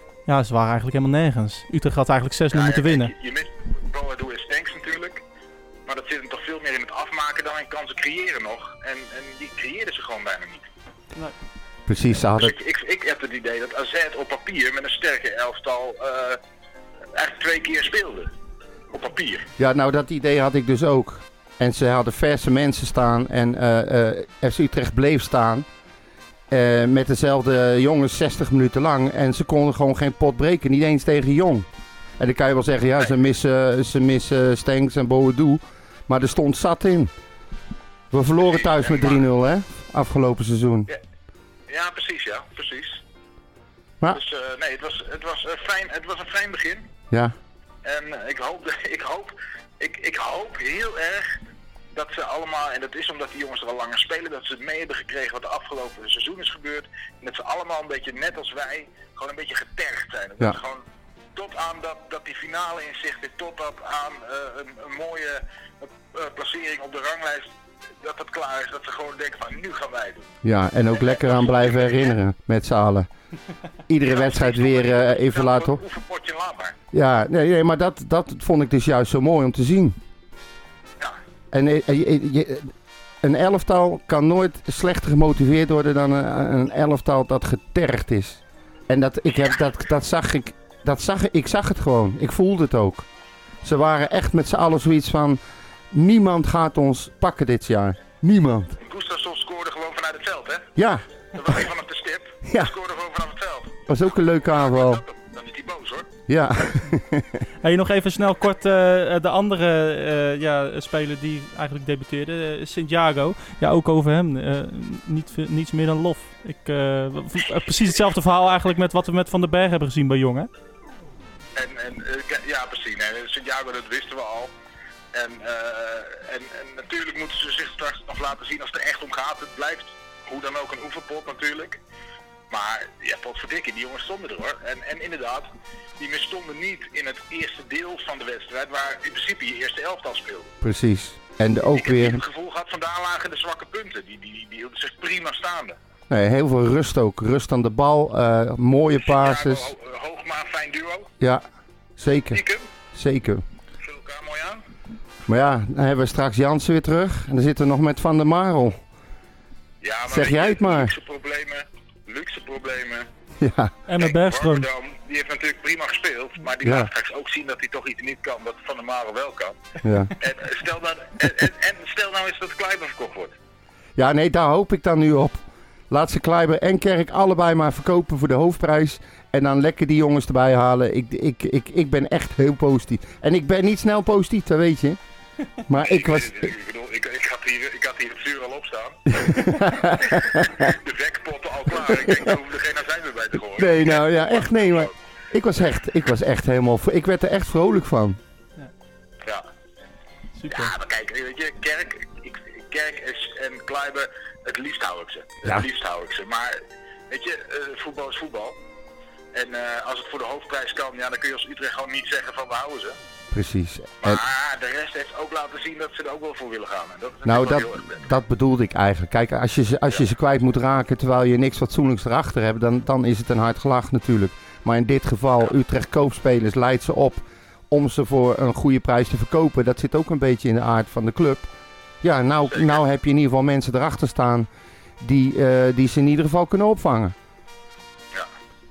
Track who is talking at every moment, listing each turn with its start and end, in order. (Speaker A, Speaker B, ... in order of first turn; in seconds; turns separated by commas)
Speaker A: 0.3-3.1, Speaker B: 2.5-5.2, Speaker B: 5.9-10.7, Speaker C: 11.9-12.6, Speaker B: 12.2-16.4, Speaker B: 17.1-18.3, Speaker B: 18.9-19.5, Speaker C: 19.6-25.7, Speaker C: 26.5-31.7, Speaker C: 32.2-37.1, Speaker C: 38.1-40.9, Speaker B: 38.5-39.2, Speaker B: 41.7-43.0, Speaker B: 44.1-46.9, Speaker B: 47.8-51.4, Speaker B: 51.9-60.8, Speaker B: 61.4-70.3, Speaker C: 70.4-73.1, Speaker B: 70.9-72.2, Speaker C: 73.9-75.8, Speaker B: 74.0-76.8, Speaker C: 76.9-80.0, Speaker C: 81.5-93.1, Speaker C: 93.6-95.4, Speaker C: 95.9-98.8, Speaker B: 98.8-100.7, Speaker C: 100.8-101.0, Speaker B: 101.3-103.8, Speaker C: 102.5-102.7, Speaker C: 103.9-105.0, Speaker B: 104.5-106.1, Speaker C: 106.3-107.4, Speaker A: 107.6-120.5, Speaker B: 121.6-124.5, Speaker B: 125.1-131.8, Speaker B: 132.5-140.5, Speaker C: 140.6-142.2, Speaker B: 141.6-145.8, Speaker C: 146.1-149.7, Speaker B: 149.0-151.1, Speaker C: 152.0-152.4, Speaker B: 152.3-152.7, Speaker C: 152.9-153.4, Speaker B: 153.8-154.6, Speaker C: 155.3-158.8, Speaker B: 159.8-163.1, Speaker C: 160.1-160.9, Speaker C: 163.4-163.7, Speaker A: 163.9-164.7, Speaker B: 164.0-169.6, Speaker C: 166.6-166.9, Speaker C: 169.8-170.1, Speaker B: 170.2-173.3, Speaker C: 174.0-185.0, Speaker C: 185.7-186.5, Speaker B: 185.8-189.2, Speaker C: 189.1-190.7, Speaker B: 190.0-194.9, Speaker C: 191.8-192.3, Speaker C: 193.6-198.2, Speaker A: 200.4-200.7, Speaker B: 200.5-206.6, Speaker B: 207.1-208.6, Speaker B: 209.3-213.0, Speaker C: 213.3-214.2, Speaker B: 214.0-218.1, Speaker C: 217.2-231.5, Speaker C: 232.0-234.5, Speaker C: 235.0-237.2